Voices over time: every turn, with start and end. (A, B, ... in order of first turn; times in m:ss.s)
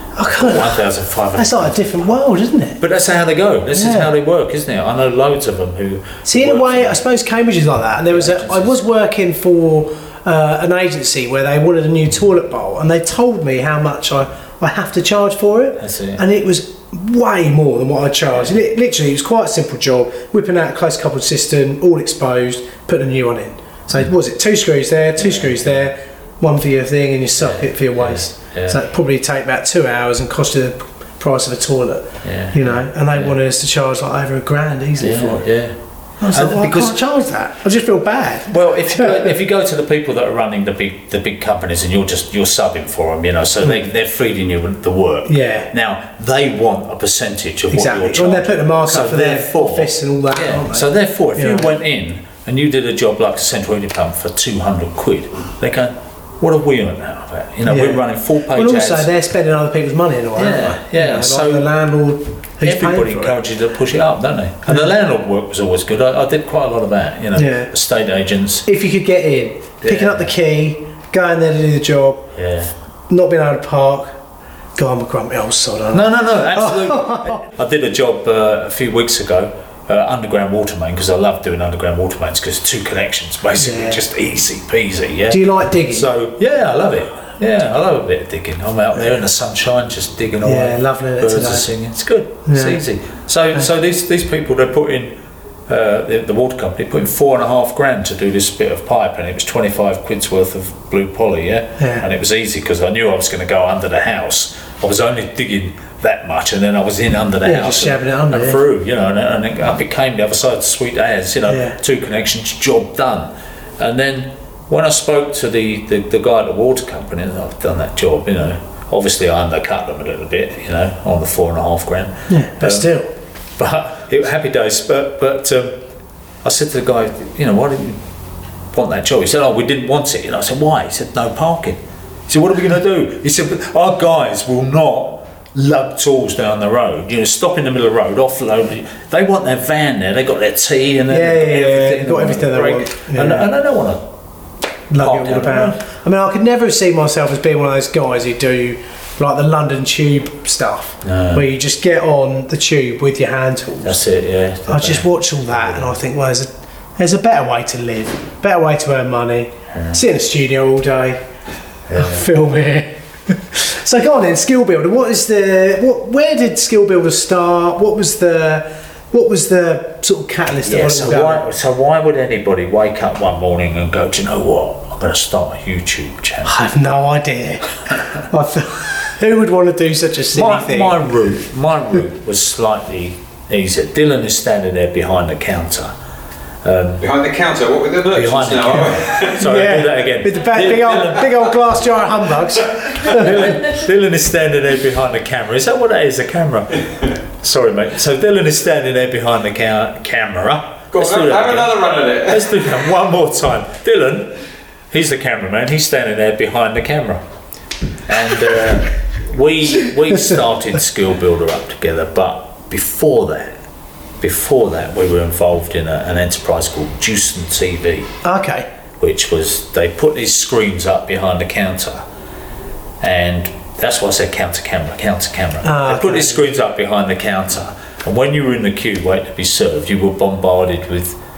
0:00.2-0:00.8 A
0:00.2-0:02.1 B
0:01.4-0:02.8 A
0:02.8-0:07.0 B
0:03.7-0:04.1 A
0:06.2-0:35.4 A
0:08.1-0:08.8 B
0:15.8-0:16.2 B
0:25.2-0:25.7 B
0:27.4-0:28.8 B
0:32.2-0:33.4 B
0:35.0-0:37.0 B
0:36.2-0:39.3 A
0:38.5-0:59.1 B
0:45.2-0:45.7 A
0:47.7-0:51.7 A
0:57.6-1:03.4 A
1:00.4-1:01.6 B
1:02.6-1:08.7 B
1:07.3-1:07.7 A
1:08.6-1:12.3 A
1:09.8-1:10.3 B
1:12.3-1:12.7 B
1:13.1-1:14.1 A
1:14.8-1:17.4 A
1:15.9-1:35.1 B
1:23.6-1:24.0 A
1:25.3-1:26.1 A
1:30.4-1:31.7 A
1:32.4-1:32.8 A
1:35.7-2:02.9 B
1:41.8-1:42.0 A
1:47.4-1:48.6 A
1:51.5-1:51.8 A
2:02.3-2:03.1 A
2:03.6-2:05.8 B
2:06.4-2:08.0 B
2:08.7-2:24.0 B
2:21.1-2:23.5 A
2:24.9-2:34.0 A
2:25.0-2:25.8 B
2:31.0-2:31.4 B
2:33.8-2:36.0 B
2:34.7-2:41.2 A
2:39.7-2:40.0 B
2:41.9-2:42.3 B
2:42.0-2:51.4 A
2:50.6-2:56.6 B
2:56.4-3:01.0 A
3:00.3-3:05.9 B
3:06.6-3:07.1 B
3:07.0-3:09.5 C
3:08.1-3:11.5 B
3:08.7-3:13.5 A
3:12.9-3:24.4 B
3:20.9-3:22.8 C
3:24.9-3:27.2 B
3:28.0-3:33.6 B
3:34.2-3:38.1 B
3:38.2-3:38.7 A
3:39.0-3:42.0 B
3:43.0-3:51.2 B
3:45.6-3:46.4 A